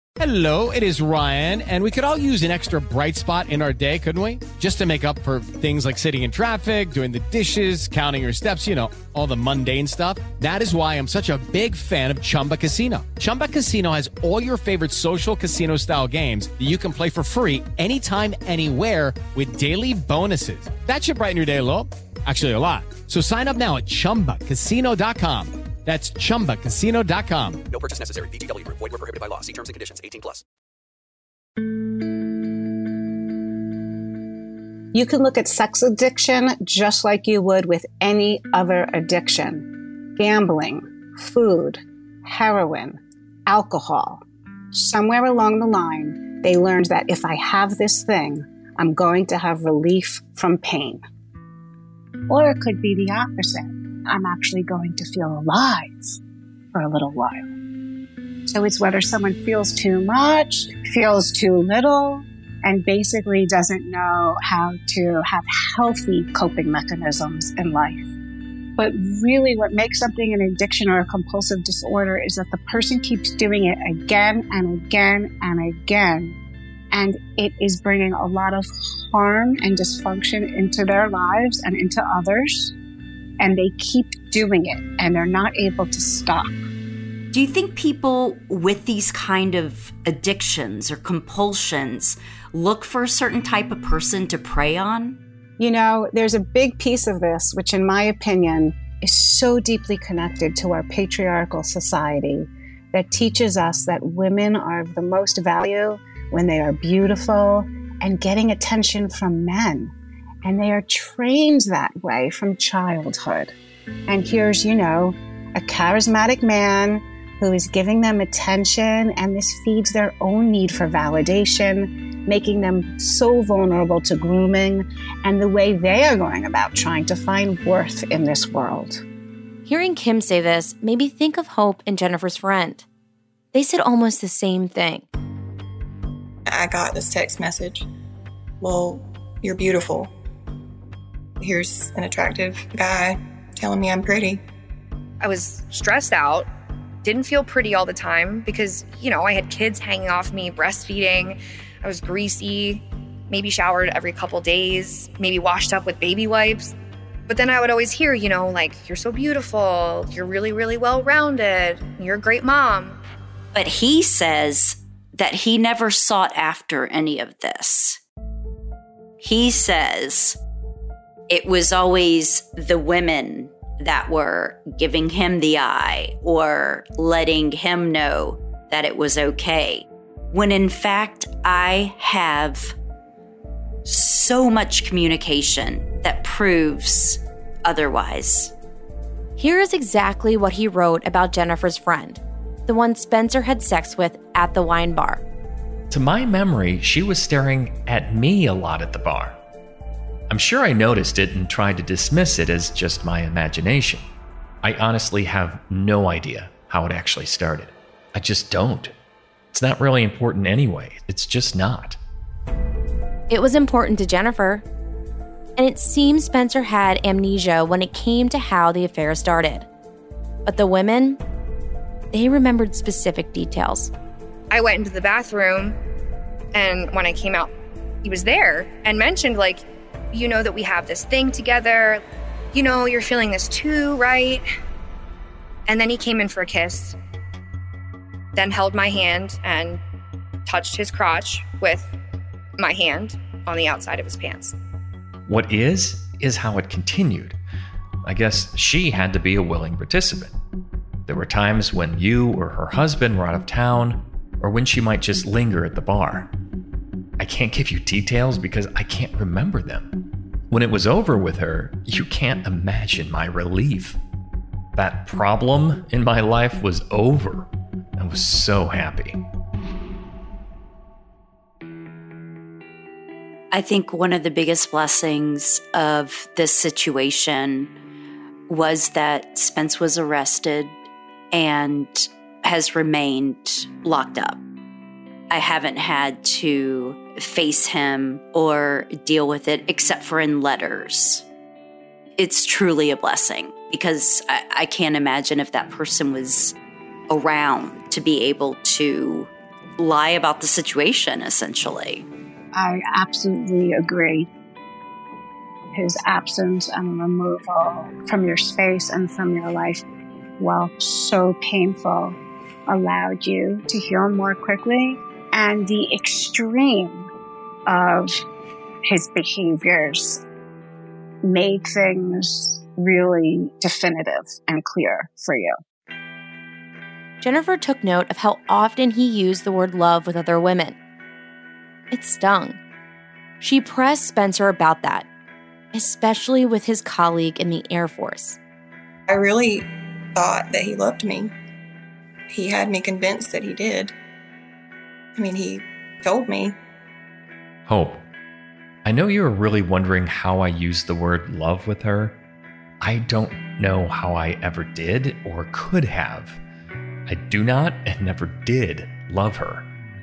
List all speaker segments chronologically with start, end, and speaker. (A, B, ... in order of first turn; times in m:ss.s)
0:00.2-0:27.6 A
0:27.7-0:30.4 B
0:34.9-0:44.2 C
0:44.7-0:51.0 C
0:52.3-0:56.2 C
0:56.7-0:57.5 C
0:58.5-1:08.1 C
1:08.8-1:16.4 C
1:16.9-1:22.7 C
1:23.4-1:26.5 C
1:27.3-1:35.2 D
1:35.6-1:53.5 C
1:54.1-2:09.0 C
2:09.7-2:12.8 E
2:13.5-2:15.1 E
2:16.5-2:17.9 F
2:18.6-2:20.1 F
2:21.4-2:24.4 F
2:25.2-2:26.5 G
2:27.0-2:36.7 G
2:37.3-2:43.0 G
2:43.5-2:48.0 D
2:49.2-2:50.4 D
2:51.3-3:02.8 D
3:03.8-3:08.5 D
3:09.4-3:15.2 E
3:15.9-3:19.4 H
3:20.3-3:24.1 H
3:24.6-3:28.9 H
3:29.5-3:32.0 H
3:33.3-3:34.6 E
3:35.6-3:39.7 E
3:40.5-3:41.2 E
3:42.1-3:43.9 E
3:44.5-3:45.8 G
3:46.5-3:47.5 G
3:48.0-3:52.0 G
3:52.5-3:54.4 G
3:55.7-3:57.0 G
3:58.4-3:59.8 G
4:00.5-4:01.9 G
4:02.6-4:04.6 G
4:05.3-4:07.4 H
4:08.0-4:10.3 H
4:11.1-4:16.3 H
4:17.2-4:19.9 H
4:20.5-4:24.0 H
4:24.8-4:29.2 H
4:33.5-4:37.7 D
4:38.5-4:40.8 D
4:41.3-4:44.4 D
4:45.3-4:51.2 D
4:52.2-4:56.6 D
4:57.1-5:02.1 D
5:02.5-5:04.3 C
5:05.7-5:09.8 C
5:10.4-5:17.1 C
5:17.7-5:18.2 C
5:18.9-5:20.2 C
5:21.2-5:25.5 C
5:27.2-5:30.8 E
5:31.9-5:32.6 E
5:33.4-5:35.1 E
5:35.7-5:38.4 E
5:39.1-5:41.3 F
5:42.3-5:43.9 F
5:45.2-5:46.6 F
5:47.7-5:48.0 H
5:48.8-5:52.2 H
5:52.8-5:56.4 H
5:57.1-5:59.7 H